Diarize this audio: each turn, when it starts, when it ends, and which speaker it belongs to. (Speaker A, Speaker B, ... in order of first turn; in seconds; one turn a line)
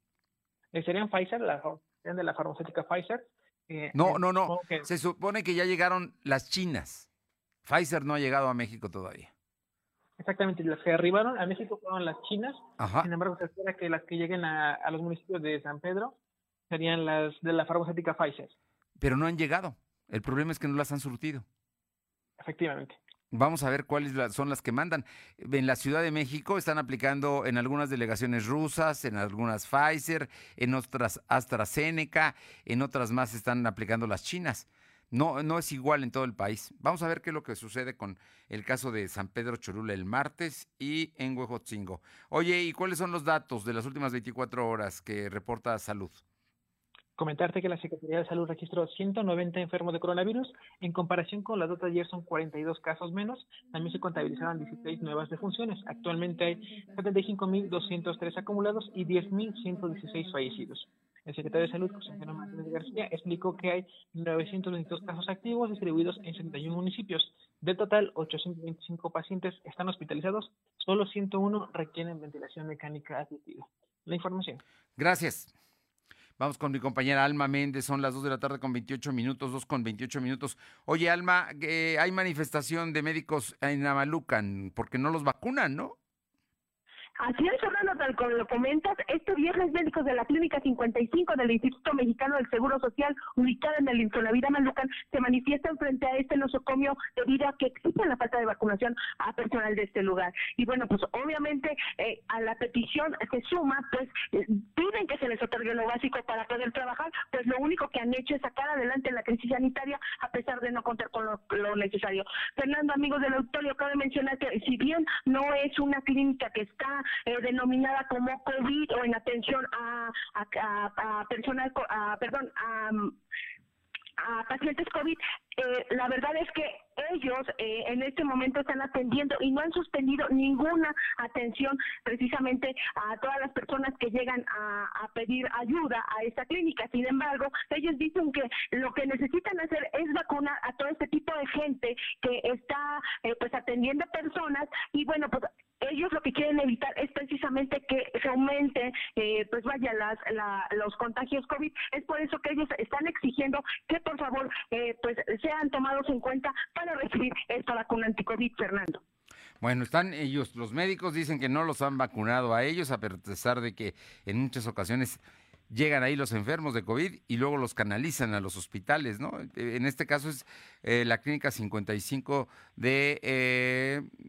Speaker A: 0.7-4.9
Speaker B: 3.9-7.1
Speaker B: 7.7-9.3
Speaker A: 10.2-16.1
Speaker B: 12.8-13.1
Speaker A: 16.7-18.5
Speaker B: 19.0-21.4
Speaker A: 22.4-23.0
Speaker B: 23.3-46.2
Speaker A: 47.2-74.6
Speaker B: 75.0-75.5
Speaker B: 76.4-86.0
Speaker C: 87.2-123.1
Speaker C: 124.2-159.0
Speaker B: 159.6-174.1